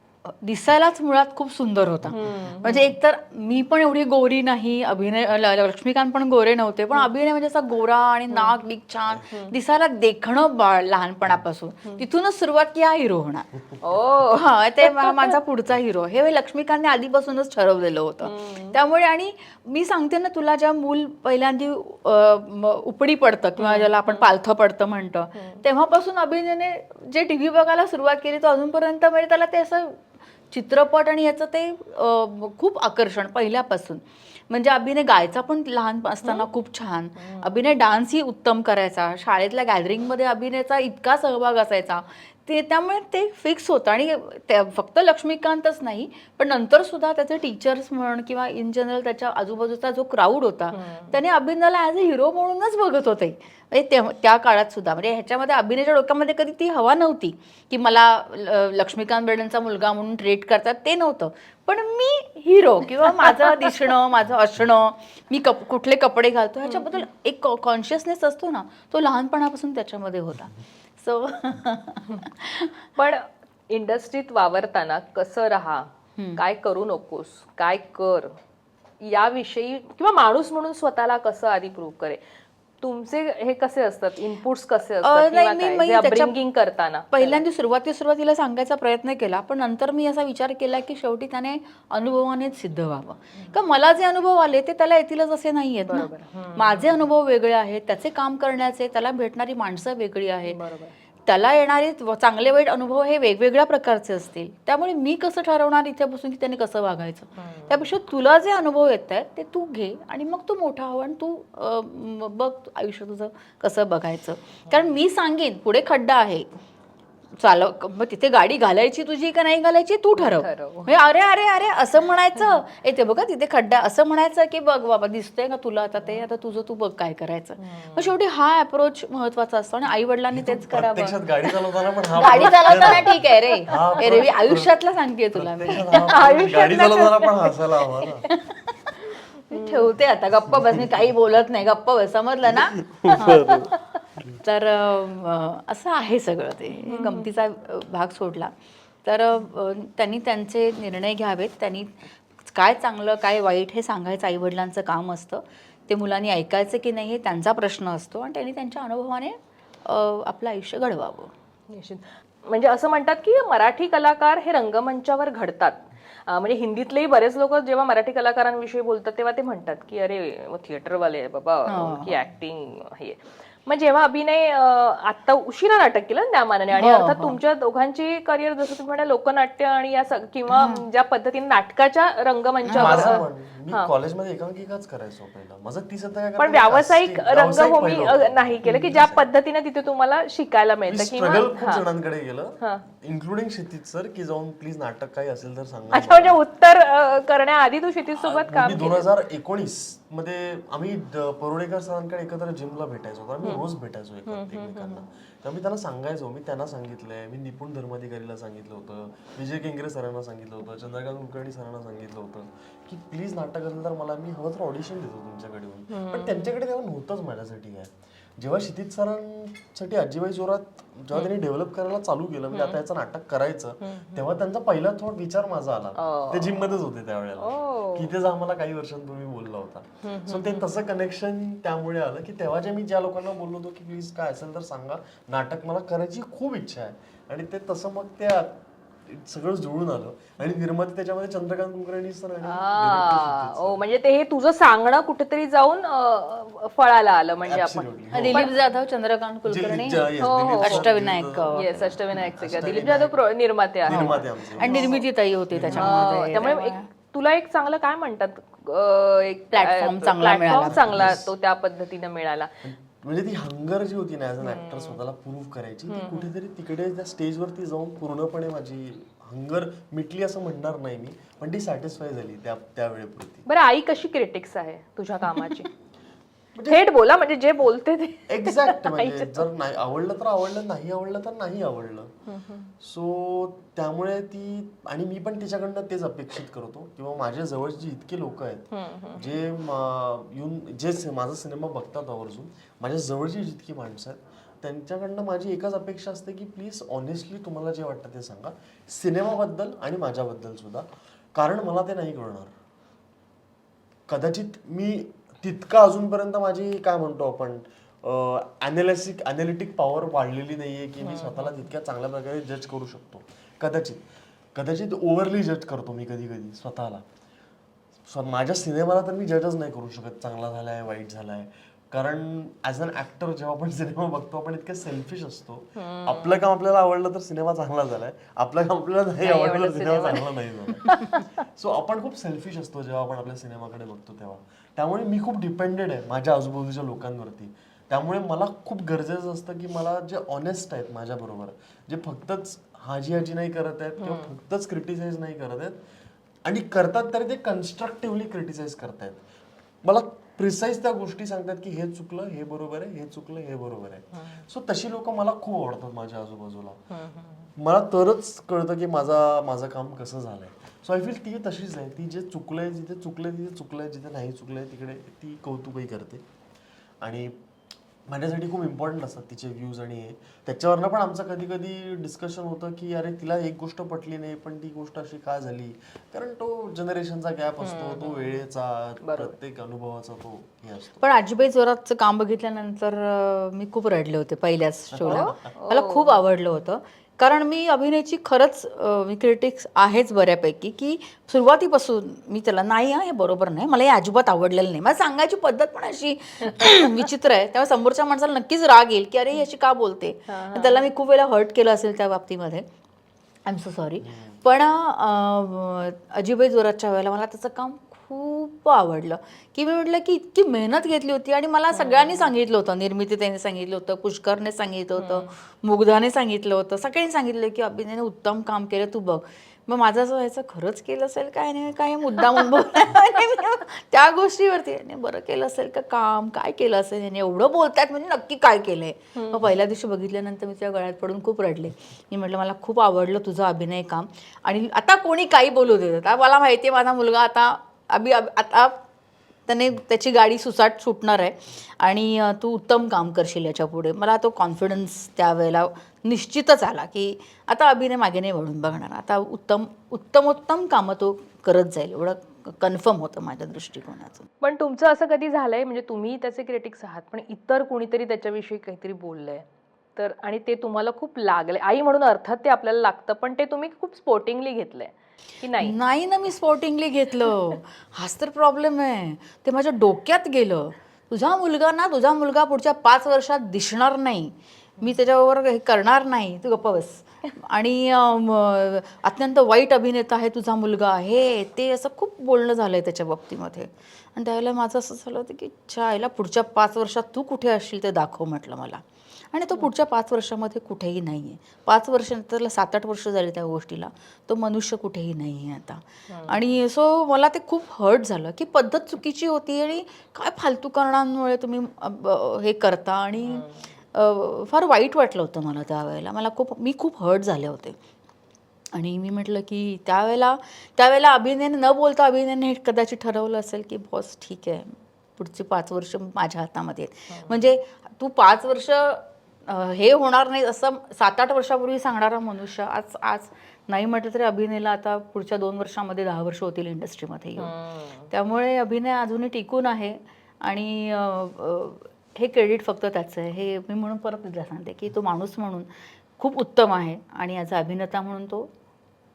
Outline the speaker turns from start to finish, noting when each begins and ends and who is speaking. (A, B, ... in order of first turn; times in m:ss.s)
0:00.4-0:13.5 A
0:02.1-0:03.0 B
0:08.3-0:08.6 B
0:09.3-0:09.6 B
0:13.8-0:15.4 B
0:14.3-1:12.8 A
0:18.2-0:18.8 B
0:23.6-0:24.3 B
0:25.4-0:25.6 B
0:37.2-0:37.5 B
0:50.7-0:51.2 B
1:06.6-1:07.0 B
1:13.0-1:18.4 B
1:16.2-1:16.4 A
1:19.0-1:22.2 B
1:22.8-1:27.4 B
1:25.0-1:26.4 A
1:27.1-1:40.6 A
1:35.9-1:37.1 B
1:40.5-1:40.9 B
1:41.3-1:56.5 A
1:47.4-1:47.9 B
1:57.4-2:11.5 A
2:00.2-2:00.9 B
2:07.6-2:08.2 B
2:10.3-2:18.3 C
2:12.2-2:16.1 A
2:12.4-2:14.3 B
2:15.8-2:18.3 B
2:18.3-2:23.6 A
2:19.5-2:19.9 B
2:22.5-2:23.7 C
2:23.2-2:23.8 B
2:24.4-2:28.5 A
2:26.8-2:27.3 B
2:29.0-2:41.3 A
2:41.7-3:03.9 B
2:51.7-2:52.2 A
2:56.8-2:57.4 A
3:00.5-3:00.8 A
3:02.7-3:03.2 A
3:02.8-3:09.3 C
3:06.4-3:11.8 B
3:08.7-3:09.0 A
3:10.9-3:16.4 C
3:15.9-3:19.1 B
3:18.2-4:03.8 C
3:24.3-3:25.0 B
3:35.9-3:36.5 B
3:42.5-3:42.8 B
3:43.8-3:44.3 B
3:46.0-3:46.8 B
3:47.4-3:48.1 B
3:50.0-3:50.7 B
4:02.4-4:08.5 B
4:07.4-4:08.5 C
4:08.1-4:12.0 A
4:09.5-4:13.2 C
4:10.2-4:10.9 B
4:11.5-4:15.1 B
4:13.8-4:16.5 C
4:13.9-4:16.9 A
4:15.7-4:22.5 B
4:19.5-4:21.2 A
4:20.5-4:21.3 C
4:22.6-4:33.4 C
4:24.4-4:25.0 B
4:25.9-4:26.3 B
4:33.5-4:35.7 B
4:35.3-4:35.7 A
4:36.6-4:36.8 C
4:36.7-4:39.4 B
4:38.3-4:42.1 C
4:42.3-4:42.7 B
4:42.8-5:02.5 C
4:48.7-4:49.4 B
5:04.1-5:17.0 C
5:11.0-5:11.7 B
5:18.1-5:45.8 C
5:25.8-5:26.4 B
5:29.2-5:31.2 B
5:44.0-5:44.3 B
5:46.4-5:49.2 C
5:49.8-5:56.8 C
5:54.2-5:54.4 B
5:56.9-5:57.5 B
5:57.6-6:06.2 C
6:07.0-6:07.4 C
6:08.1-6:21.0 C
6:17.6-6:18.4 B
6:19.0-6:19.4 B
6:21.0-6:42.7 A
6:24.9-6:25.4 C
6:25.0-6:26.2 B
6:40.3-6:40.9 B
6:43.5-7:18.8 A
6:44.0-6:44.4 C
6:51.7-6:52.3 B
6:55.0-6:55.3 B
7:09.2-7:09.4 B
7:19.5-7:34.3 A
7:34.4-7:39.4 B
7:40.0-7:45.8 B
7:45.6-8:27.8 A
8:16.1-8:16.6 B
8:23.2-8:23.7 B
8:28.7-8:47.5 A
8:37.1-8:37.4 B
8:47.4-8:48.1 B
8:48.1-8:58.5 A